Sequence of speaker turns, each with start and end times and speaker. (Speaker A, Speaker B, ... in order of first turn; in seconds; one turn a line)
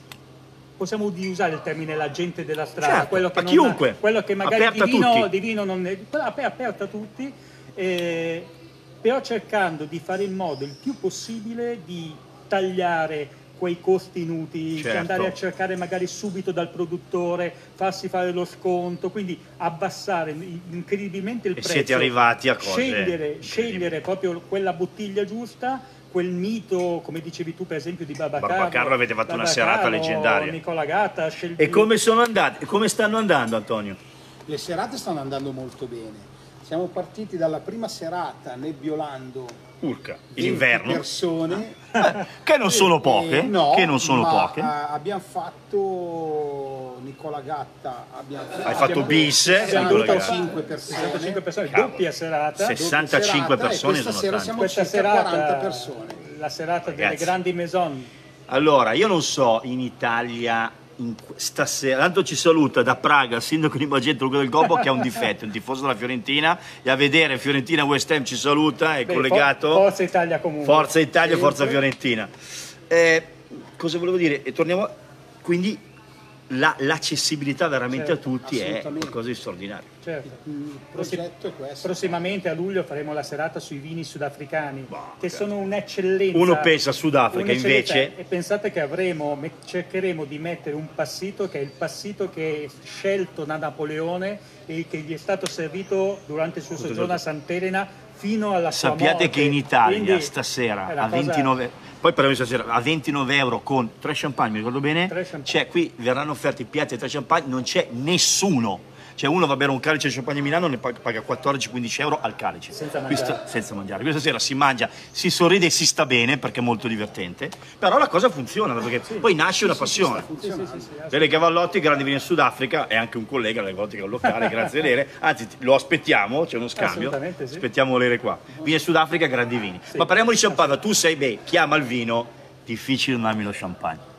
Speaker A: 0.8-31.9
Speaker B: 2.8-5.3
Speaker B: 14.8-15.3
Speaker B: 21.6-24.0
Speaker B: 28.4-30.6
Speaker B: 31.6-34.0
Speaker C: 34.5-39.6
Speaker B: 39.8-41.0
Speaker C: 40.3-41.9
Speaker B: 41.6-44.7
Speaker A: 42.0-42.2
Speaker C: 42.6-51.5
Speaker B: 48.6-50.4
Speaker A: 48.8-52.8
Speaker B: 51.7-52.0
Speaker B: 52.6-54.6
Speaker C: 52.8-56.2
Speaker A: 54.6-58.1
Speaker B: 56.8-57.3
Speaker B: 58.5-69.9
Speaker A: 64.6-65.1
Speaker A: 69.1-71.0
Speaker B: 70.7-72.3
Speaker C: 71.2-71.8
Speaker B: 72.9-74.9
Speaker B: 75.4-75.8
Speaker B: 76.5-79.9
Speaker A: 77.9-78.2
Speaker C: 78.4-79.2
Speaker A: 80.0-80.4
Speaker C: 80.3-82.3
Speaker A: 81.0-81.2
Speaker A: 81.8-86.7
Speaker B: 84.9-85.4
Speaker B: 86.3-88.1
Speaker A: 87.3-100.3
Speaker B: 96.8-97.2
Speaker B: 98.7-120.3
Speaker A: 100.9-101.5
Speaker A: 105.1-105.6
Speaker A: 112.7-113.4
Speaker A: 119.0-119.3
Speaker C: 119.6-120.9
Speaker A: 120.4-121.5
Speaker B: 121.1-134.0
Speaker A: 124.2-124.8
Speaker A: 126.8-127.6
Speaker A: 129.9-130.8